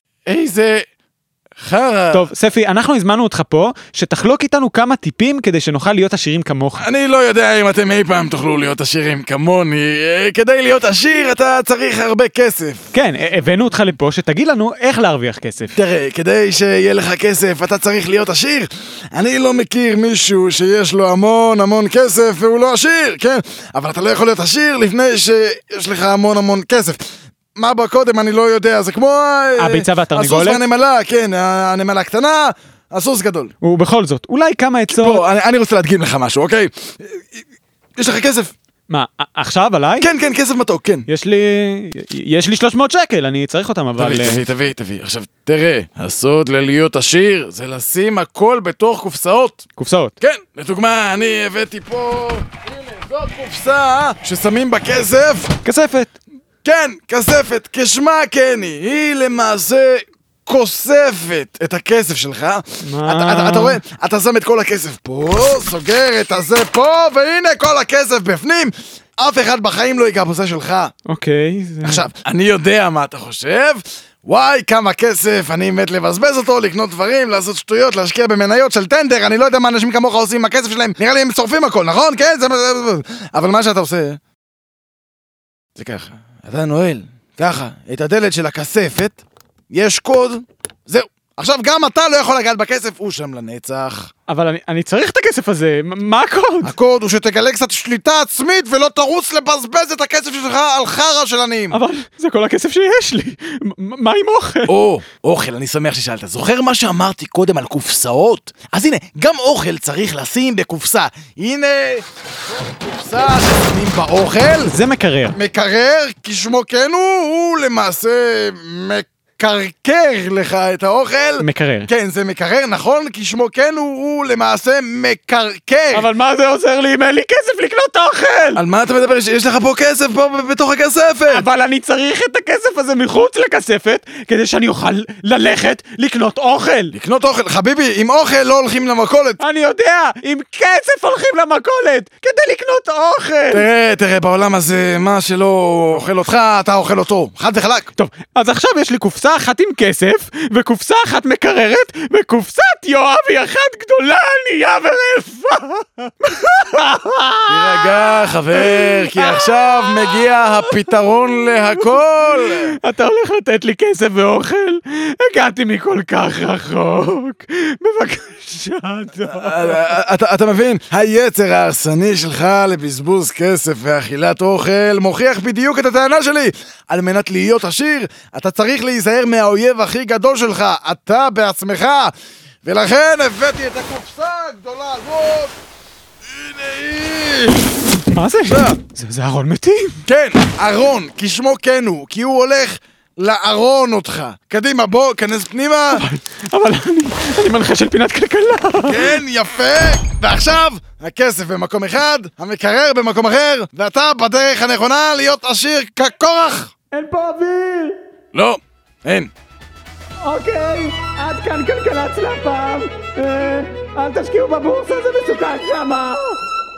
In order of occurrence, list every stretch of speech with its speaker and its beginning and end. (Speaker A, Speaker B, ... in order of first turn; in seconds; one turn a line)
Speaker A: 0.3-0.9
Speaker A: 1.6-2.3
Speaker B: 2.1-6.9
Speaker A: 6.8-12.9
Speaker B: 12.9-15.8
Speaker A: 15.8-27.0
Speaker A: 27.6-33.5
Speaker B: 29.6-30.6
Speaker B: 33.6-35.2
Speaker A: 34.9-37.4
Speaker A: 38.0-38.5
Speaker B: 38.9-40.1
Speaker A: 40.0-41.1
Speaker B: 41.1-44.4
Speaker A: 44.0-49.7
Speaker B: 49.8-50.1
Speaker A: 50.2-55.5
Speaker B: 55.6-56.1
Speaker A: 56.6-70.9
Speaker B: 62.8-63.8
Speaker B: 71.1-72.0
Speaker A: 71.8-84.2
Speaker A: 85.8-94.1
Speaker B: 94.3-96.7
Speaker A: 96.6-101.8
Speaker B: 101.7-104.8
Speaker A: 104.7-112.0
Speaker A: 112.7-114.8
Speaker B: 114.7-115.4
Speaker A: 115.3-126.1
Speaker B: 121.4-121.9
Speaker B: 125.9-128.6
Speaker A: 128.6-131.5
Speaker B: 131.3-136.9
Speaker A: 136.9-139.4
Speaker B: 139.4-143.7
Speaker A: 143.5-147.9
Speaker B: 148.0-160.8
Speaker A: 157.5-162.8
Speaker B: 161.8-169.9
Speaker A: 169.3-182.1
Speaker A: 182.6-185.6
Speaker A: 186.2-187.8
Speaker B: 188.1-190.0
Speaker A: 188.4-188.8
Speaker A: 190.1-196.1
Speaker B: 195.9-199.2
Speaker A: 198.9-206.7
Speaker B: 206.9-208.0
Speaker A: 208.3-209.3
Speaker B: 210.2-216.4